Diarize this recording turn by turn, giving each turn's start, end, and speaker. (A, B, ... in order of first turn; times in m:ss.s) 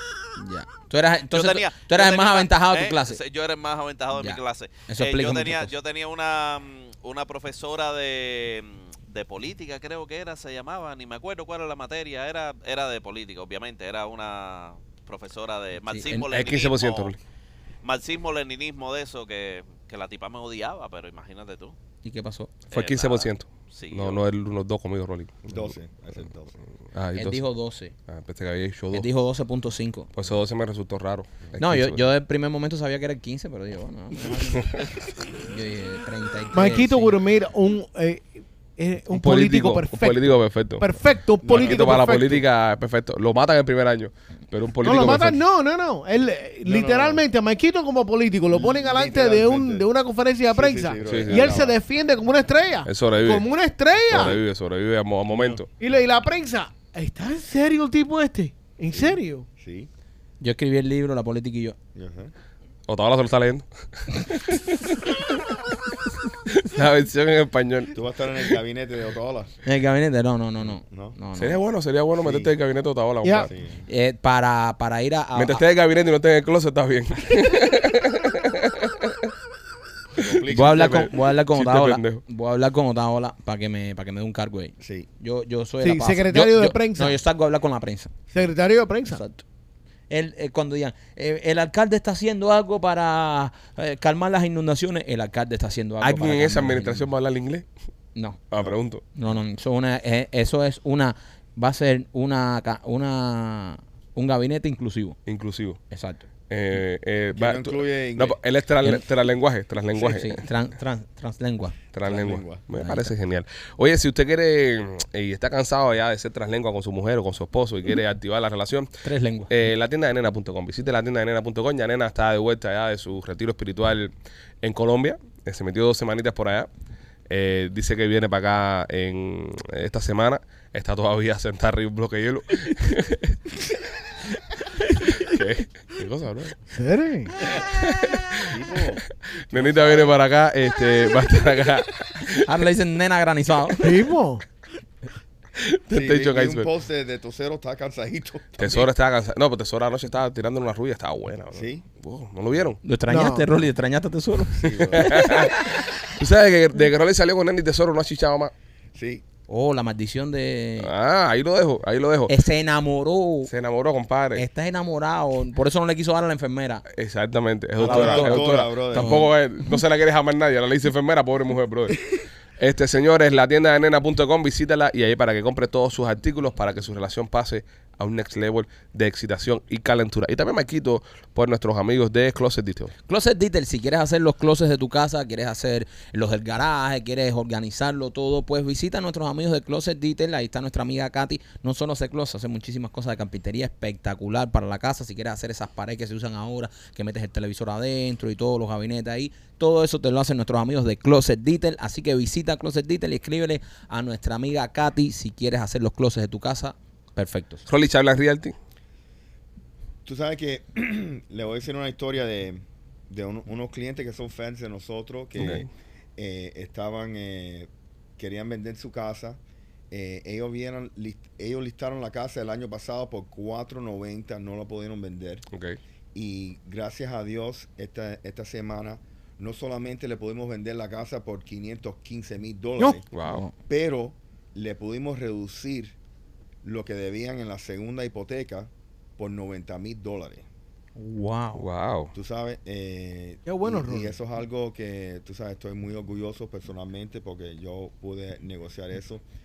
0:00.4-0:03.2 A
0:01.3-0:17.1 B
0:04.1-0:05.7 A
0:15.9-0:16.3 A
0:16.3-0:17.2 C
0:17.8-0:21.8 B
0:22.0-0:22.5 A
0:22.7-0:24.2 B
0:22.7-0:25.7 C
0:25.5-0:26.6 D
0:26.9-0:27.4 C
0:27.2-0:27.9 A
0:28.1-0:29.1 C
0:28.9-0:30.1 A
0:30.2-0:32.0 C
0:31.6-0:34.7 A
0:35.4-0:37.2 A
0:36.5-0:42.4 E
0:39.1-0:40.9 C
0:41.4-0:42.2 D
0:41.5-0:45.4 C
0:44.8-0:54.4 E
0:46.6-0:47.2 D
0:48.5-0:49.9 D
0:50.5-0:51.8 D
0:51.0-0:51.6 C
0:52.9-0:53.5 C
0:54.1-0:55.7 C
0:55.3-0:55.6 D
0:55.8-0:59.5 E
0:58.9-0:59.9 D
1:00.4-1:01.8 A
1:02.0-1:02.3 D
1:02.9-1:05.4 C
1:06.5-1:07.9 C
1:07.9-1:09.5 D
1:09.6-1:11.6 A
1:10.6-1:11.2 D
1:11.4-1:13.5 C
1:12.2-1:12.5 D
1:13.2-1:13.5 E
1:13.4-1:13.9 D
1:13.9-1:15.6 A
1:15.4-1:19.3 C
1:20.2-1:21.1 D
1:20.2-1:22.2 C
1:20.5-1:28.1 A
1:24.8-1:25.1 D
1:25.8-1:27.2 E
1:28.3-1:29.2 E
1:29.1-1:29.4 A
1:30.1-1:37.1 A
1:36.0-1:37.7 C
1:38.2-1:38.4 A
1:38.5-1:39.0 C
1:39.2-1:45.2 A
1:45.3-1:45.8 C
1:45.9-1:46.2 A
1:46.5-1:50.4 C
1:47.3-1:48.4 D
1:50.0-1:51.8 A
1:51.9-1:58.9 C
1:52.0-1:52.6 D
1:52.8-1:53.1 A
1:59.0-1:59.5 A
1:59.5-2:04.1 C
2:04.6-2:06.7 C
2:07.3-2:13.4 C
2:15.2-2:16.6 C
2:16.7-2:17.4 E
2:17.7-2:18.6 C
2:18.5-2:19.0 D
2:19.5-2:22.5 C
2:19.6-2:20.2 D
2:22.3-2:24.0 A
2:23.8-2:24.4 E
2:25.6-2:26.7 C
2:25.9-2:28.8 D
2:28.6-2:32.8 C
2:31.5-2:31.8 D
2:32.8-2:35.5 A
2:33.1-2:33.5 E
2:34.6-2:35.5 D
2:34.9-2:38.5 C
2:38.9-2:39.2 D
2:39.5-2:40.9 A
2:40.8-2:42.3 C
2:42.3-2:43.5 A
2:43.5-2:44.4 C
2:44.4-2:46.8 A
2:46.9-2:52.0 C
2:47.8-2:49.2 D
2:47.8-2:49.3 A
2:52.6-3:02.9 C
3:03.1-3:27.6 A
3:27.7-3:28.6 C
3:30.0-3:39.4 D
3:35.4-3:35.7 C
3:39.9-3:45.4 D
3:45.5-3:45.8 C
3:46.1-3:53.1 D
3:53.1-3:53.4 C
3:53.2-3:53.5 A
3:53.6-3:56.0 D
3:56.6-4:00.4 D
4:01.0-4:01.6 A
4:01.6-4:02.1 C
4:02.1-4:09.2 D
4:03.5-4:04.1 E